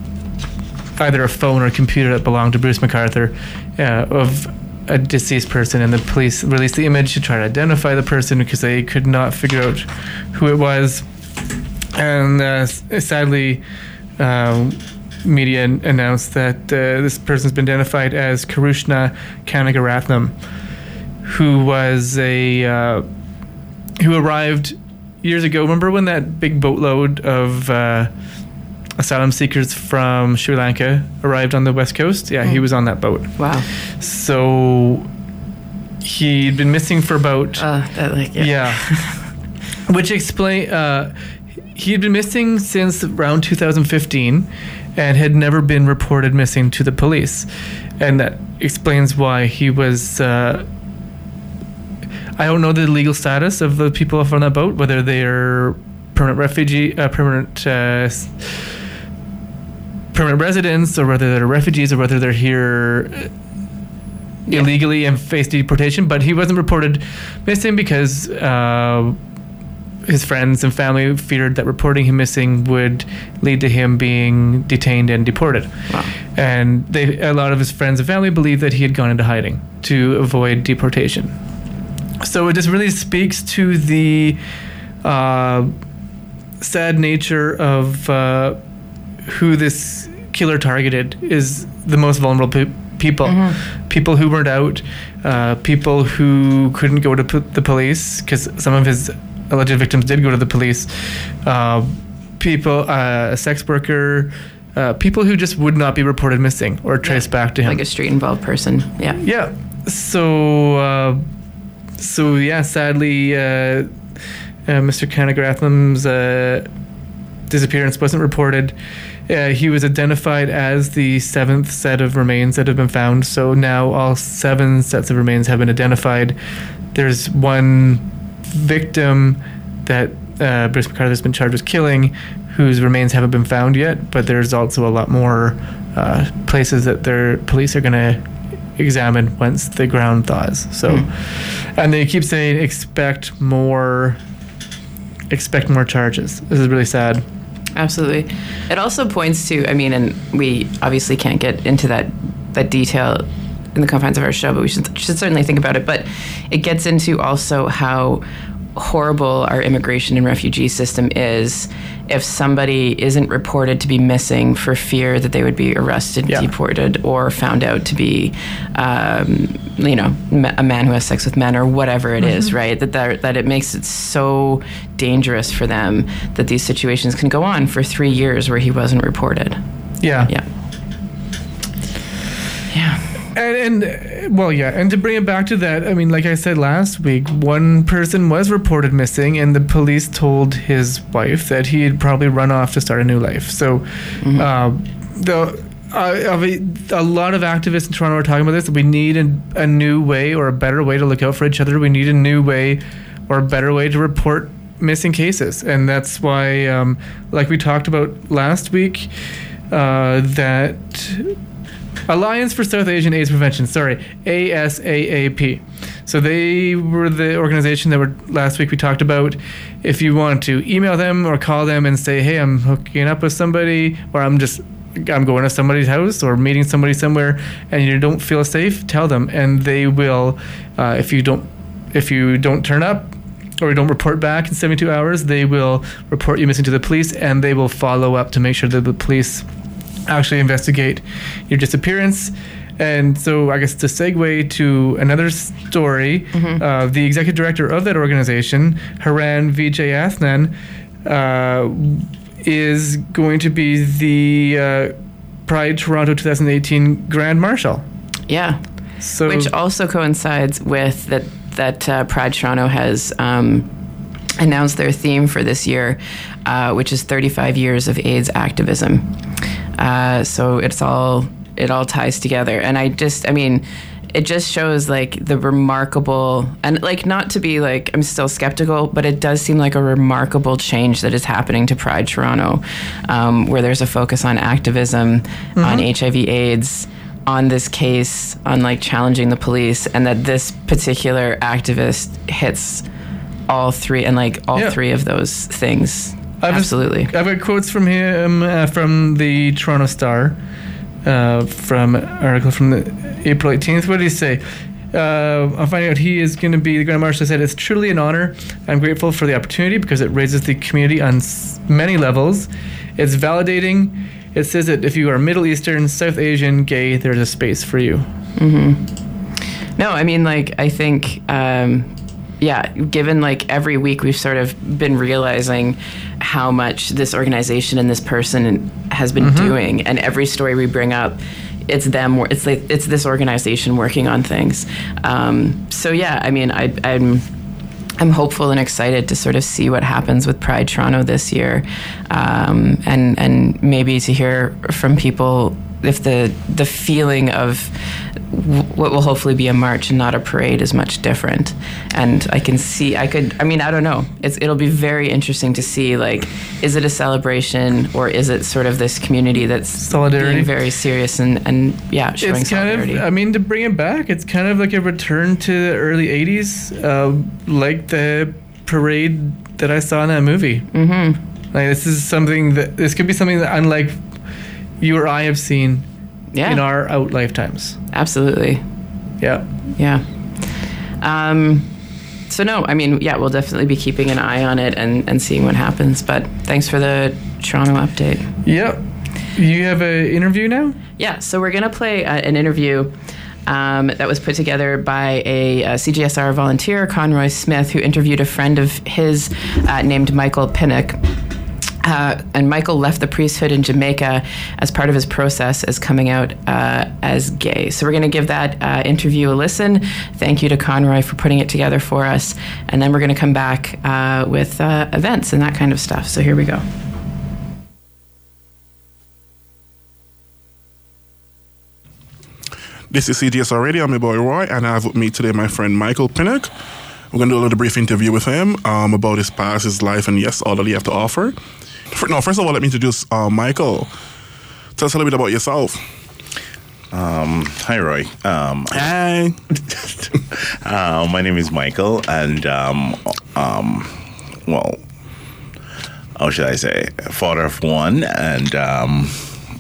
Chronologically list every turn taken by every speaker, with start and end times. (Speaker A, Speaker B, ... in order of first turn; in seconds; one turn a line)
Speaker A: 1.0-11.1
Speaker A: 11.9-13.6
Speaker A: 14.2-20.3
Speaker A: 21.2-23.1
Speaker A: 24.0-28.1
Speaker A: 29.0-33.4
Speaker B: 33.4-33.6
Speaker A: 34.0-35.1
Speaker A: 36.0-37.6
Speaker B: 37.6-39.2
Speaker A: 38.4-38.9
Speaker A: 39.9-41.1
Speaker A: 41.7-47.5
Speaker A: 48.0-50.7
Speaker A: 52.4-58.7
Speaker A: 60.1-63.3
Speaker A: 64.5-69.2
Speaker A: 70.0-81.3
Speaker A: 82.2-84.4
Speaker A: 85.0-85.7
Speaker A: 86.6-88.6
Speaker A: 89.2-107.8
Speaker B: 93.2-93.6
Speaker B: 107.0-109.2
Speaker A: 109.2-111.2
Speaker A: 112.0-113.9
Speaker A: 114.7-116.7
Speaker A: 117.5-118.7
Speaker A: 119.3-126.4
Speaker A: 126.9-138.2
Speaker A: 138.8-144.2
Speaker A: 145.3-147.2
Speaker B: 147.7-158.2
Speaker B: 158.7-179.6
Speaker A: 180.0-180.3
Speaker B: 182.7-183.1
Speaker A: 183.3-209.1
Speaker B: 194.2-194.5
Speaker A: 209.7-211.3
Speaker A: 212.1-239.4
Speaker A: 240.1-254.9
Speaker B: 246.3-246.6
Speaker A: 255.5-257.8
Speaker B: 258.3-258.6
Speaker A: 259.0-259.5
Speaker B: 259.2-263.7
Speaker B: 264.4-269.1
Speaker B: 269.8-292.8
Speaker A: 285.6-285.9
Speaker B: 293.5-297.1
Speaker A: 296.4-300.4
Speaker A: 301.0-318.1
Speaker B: 318.4-337.3
Speaker A: 329.2-329.6
Speaker B: 338.0-363.0
Speaker A: 359.8-360.5
Speaker A: 362.2-370.7
Speaker B: 370.7-371.2
Speaker A: 371.5-374.0
Speaker A: 374.8-375.9
Speaker B: 376.3-376.6
Speaker A: 376.4-377.8
Speaker B: 377.9-378.6
Speaker A: 379.2-379.5
Speaker B: 379.8-381.7
Speaker B: 382.3-388.3
Speaker A: 388.4-390.8
Speaker B: 391.0-392.9
Speaker B: 393.4-401.1
Speaker B: 401.8-416.6
Speaker C: 422.9-426.5
Speaker C: 427.1-431.4
Speaker C: 431.9-433.9
Speaker C: 434.8-435.8
Speaker D: 436.9-438.9
Speaker C: 438.7-439.4
Speaker D: 439.7-444.8
Speaker D: 446.2-449.3